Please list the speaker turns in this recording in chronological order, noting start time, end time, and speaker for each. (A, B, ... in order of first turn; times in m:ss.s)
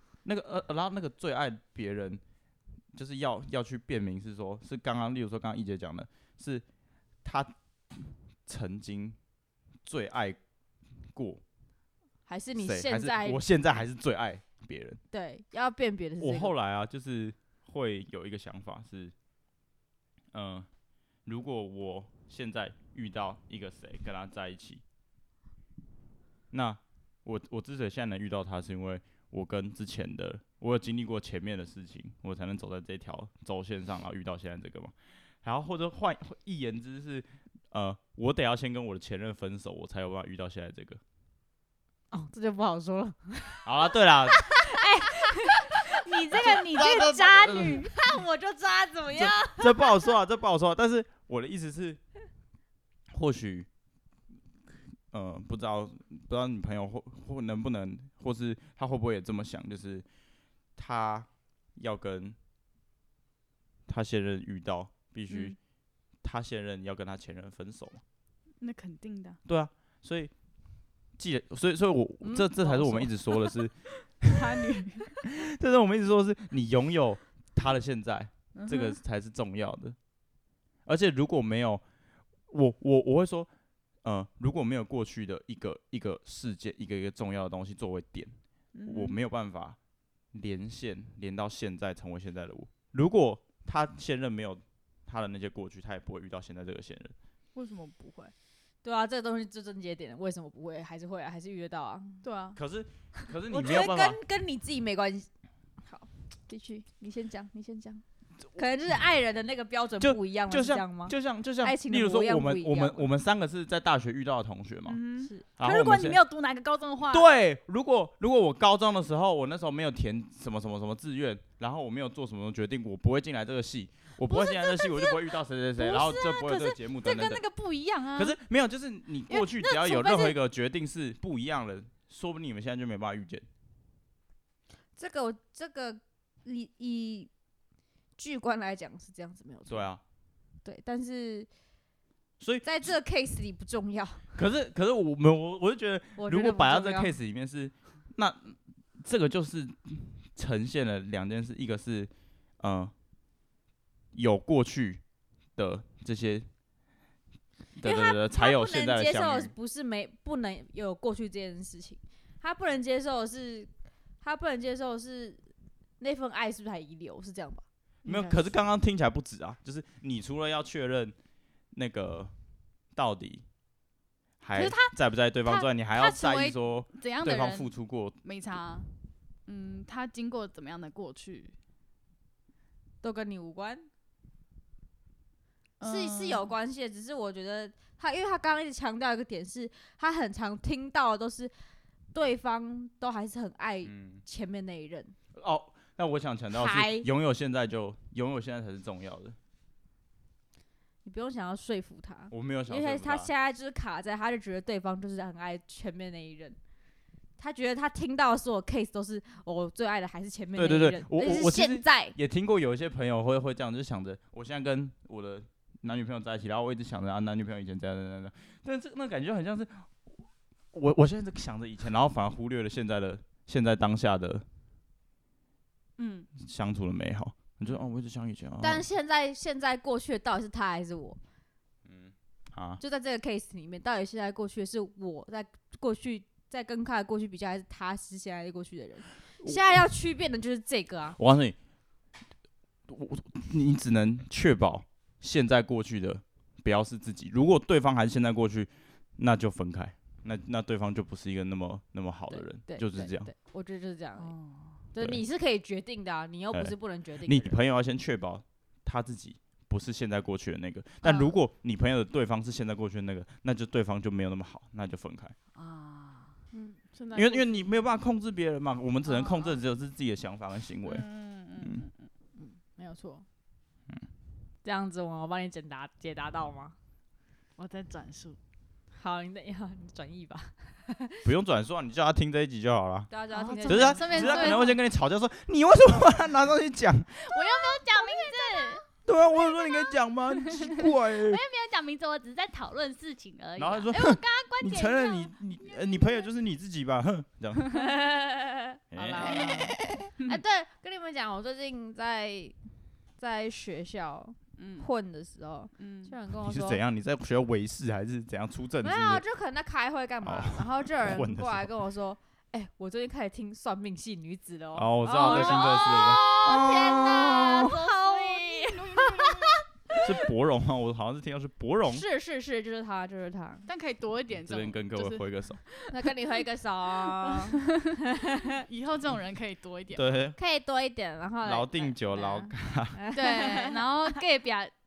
0:00.2-0:02.2 A
0:02.9-0:06.6 A
0:07.2-0:09.2 A
0:09.8-0:10.4 A
0:11.1-0:11.4 A
0:12.3-0:13.4 B
0:12.6-0:15.0 A
0:15.1-0:16.5 B
0:16.2-0:19.1 A
0:20.3-0:20.7 A
0:21.2-0:24.8 A
0:26.5-0:41.0 A
0:42.1-0:44.8 B
0:43.6-0:44.4 A
0:44.7-0:47.9 C
0:46.2-0:47.2 B
0:46.4-0:47.9 A
0:47.9-0:50.1 B
0:49.1-0:52.0 A
0:53.1-0:53.7 A
0:55.1-1:00.0 A
1:00.8-1:02.4 A
1:03.9-1:05.6 A
1:05.3-1:05.5 C
1:06.2-1:08.0 A
1:08.6-1:09.4 C
1:09.4-1:10.3 A
1:11.2-1:14.4 A
1:12.2-1:13.2 B
1:14.2-1:15.1 C
1:15.2-1:20.0 A
1:18.5-1:19.0 C
1:20.8-1:21.8 A
1:22.5-1:23.5 A
1:24.0-1:28.3 A
1:28.7-1:29.2 C
1:28.9-1:29.8 A
1:30.3-1:37.1 A
1:37.5-1:38.3 C
1:38.8-1:42.2 B
1:42.2-1:42.6 C
1:42.6-1:44.2 A
1:43.5-1:45.3 B
1:45.8-1:53.1 B
1:50.0-1:55.0 A
1:54.9-1:57.3 C
1:55.6-1:56.2 A
1:57.1-2:07.4 A
2:04.3-2:08.4 C
2:08.1-2:13.5 A
2:09.3-2:10.4 C
2:15.0-2:17.3 B
2:18.2-2:19.9 B
2:19.7-2:20.0 A
2:20.6-2:21.5 B
2:22.4-2:22.7 A
2:22.6-2:24.4 B
2:24.3-2:32.9 A
2:26.2-2:27.1 B
2:34.1-2:35.0 A
2:35.6-2:36.5 A
2:37.8-2:39.5 A
2:37.8-2:43.7 B
2:44.2-2:45.5 B
2:46.0-2:47.6 B
2:48.0-2:51.2 A
2:48.0-2:48.5 C
2:51.7-2:52.3 A
2:52.9-2:53.4 A
2:54.4-2:58.2 A
2:54.5-2:57.7 C
2:58.2-2:58.9 C
2:59.4-3:01.6 C
3:03.0-3:03.9 B
3:05.8-3:06.5 C
3:05.8-3:11.5 B
3:12.1-3:15.2 B
3:13.8-3:14.2 A
3:15.4-3:19.4 A
3:16.5-3:17.1 B
3:21.0-3:26.6 B
3:22.3-3:23.3 A
3:27.4-3:32.2 B
3:30.6-3:44.4 A
3:46.0-3:46.3 C
3:46.4-3:48.8 A
3:48.6-3:51.2 B
3:51.8-3:52.8 A
3:52.8-4:01.2 B
3:59.4-3:59.8 A
4:01.2-4:01.6 A
4:02.9-4:13.3 A
4:12.3-4:14.3 B
4:14.2-4:14.8 C
4:14.9-4:17.6 B
4:15.0-4:15.2 A
4:16.5-4:25.3 A
4:21.0-4:21.4 B
4:25.5-4:26.3 C
4:26.5-4:27.6 B
4:27.1-4:31.0 A
4:29.1-4:29.5 C
4:30.8-4:32.1 C
4:31.6-4:31.9 A
4:32.4-4:33.2 B
4:34.6-4:36.8 B
4:37.6-4:38.4 C
4:39.0-4:41.2 B
4:41.2-4:43.1 A
4:43.1-4:44.8 B
4:43.3-4:44.7 C
4:43.6-4:47.1 A
4:47.1-4:56.2 C
4:47.4-4:48.8 B
4:49.0-4:51.4 A
4:53.6-4:57.9 A
4:57.7-5:02.6 B
4:58.9-4:59.7 A
4:59.2-5:00.4 C
5:03.2-5:06.8 B
5:04.6-5:04.9 C
5:05.8-5:06.2 C
5:06.4-5:09.2 A
5:08.8-5:20.1 B
5:10.2-5:11.7 A
5:14.7-5:17.7 A
5:15.2-5:15.7 C
5:17.6-5:19.6 C
5:20.0-5:22.0 A
5:21.9-5:23.6 B
5:23.6-5:25.9 C
5:24.5-5:25.6 A
5:25.9-5:27.6 B
5:27.1-5:27.4 C
5:28.1-5:28.6 B
5:28.6-5:30.0 C
5:29.9-5:30.4 A
5:30.4-5:33.8 B
5:31.4-5:33.0 A
5:33.1-5:34.7 C